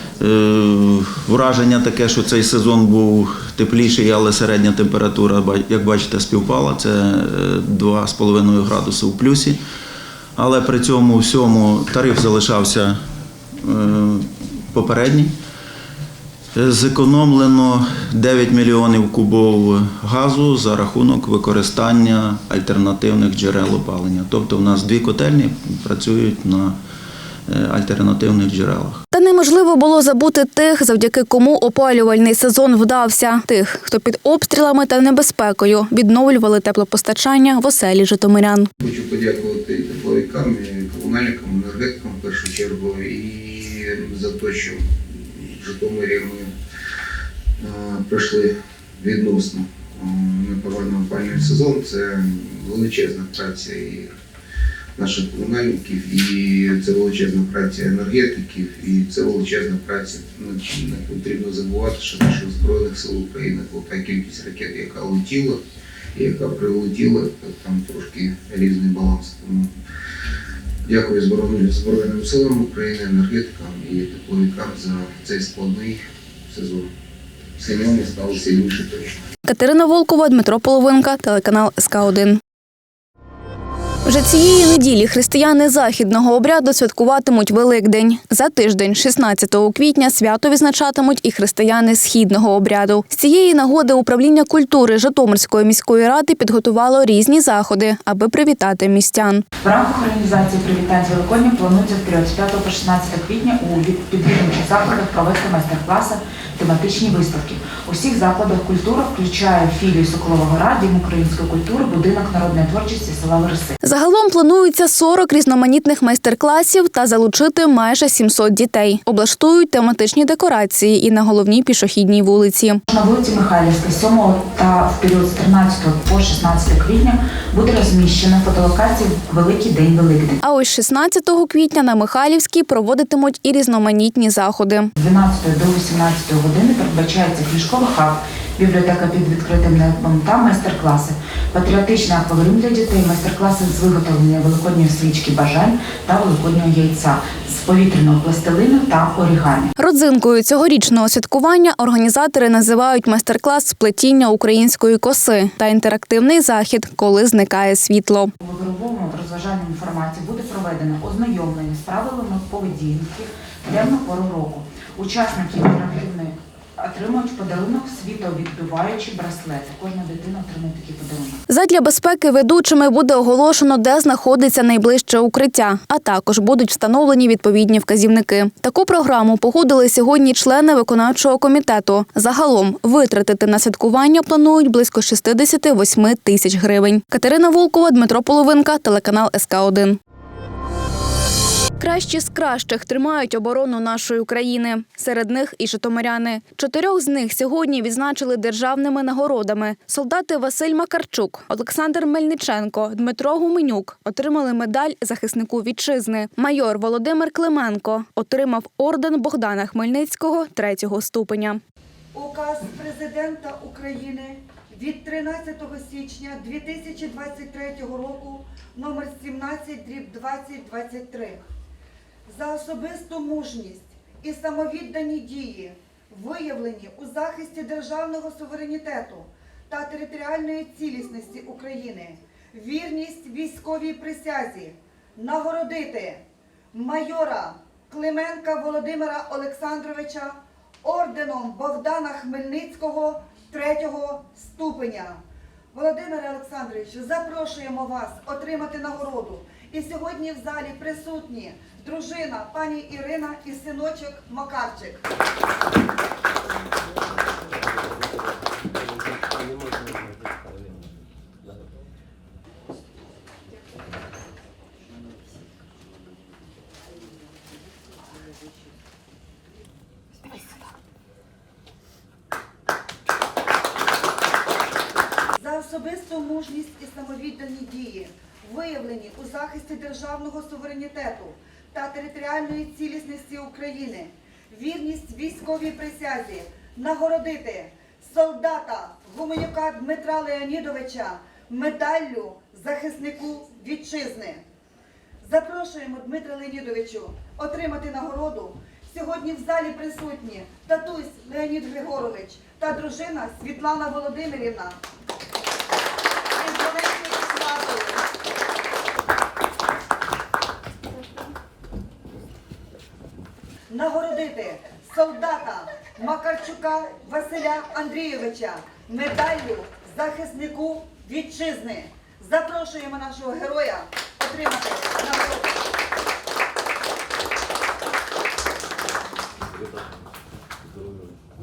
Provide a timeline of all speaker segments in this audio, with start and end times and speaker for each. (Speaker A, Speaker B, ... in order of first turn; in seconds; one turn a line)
Speaker A: 0.2-9.6
Speaker A: 10.4-13.0
Speaker A: 13.6-15.3
Speaker A: 16.5-26.8
Speaker A: 27.5-29.0
Speaker B: 29.1-38.7
Speaker C: 38.8-46.5
Speaker C: 47.6-54.1
Speaker C: 55.0-65.6
Speaker C: 66.1-69.7
Speaker C: 70.8-76.9
Speaker C: 77.6-79.2
Speaker B: 79.5-82.4
Speaker B: 84.0-99.4
Speaker D: 99.6-113.8
Speaker B: 113.8-122.8
Speaker D: 122.9-130.4
Speaker B: 130.4-134.9
Speaker D: 135.0-149.7
Speaker B: 149.8-158.3
Speaker D: 158.4-171.4
Speaker B: 171.5-190.0
Speaker B: 191.8-211.6
Speaker E: 212.1-221.4
Speaker E: 222.3-245.2
Speaker E: 245.7-255.0
Speaker E: 275.4-294.4
Speaker E: 295.2-304.8
Speaker E: 306.3-308.0
Speaker E: 313.7-325.6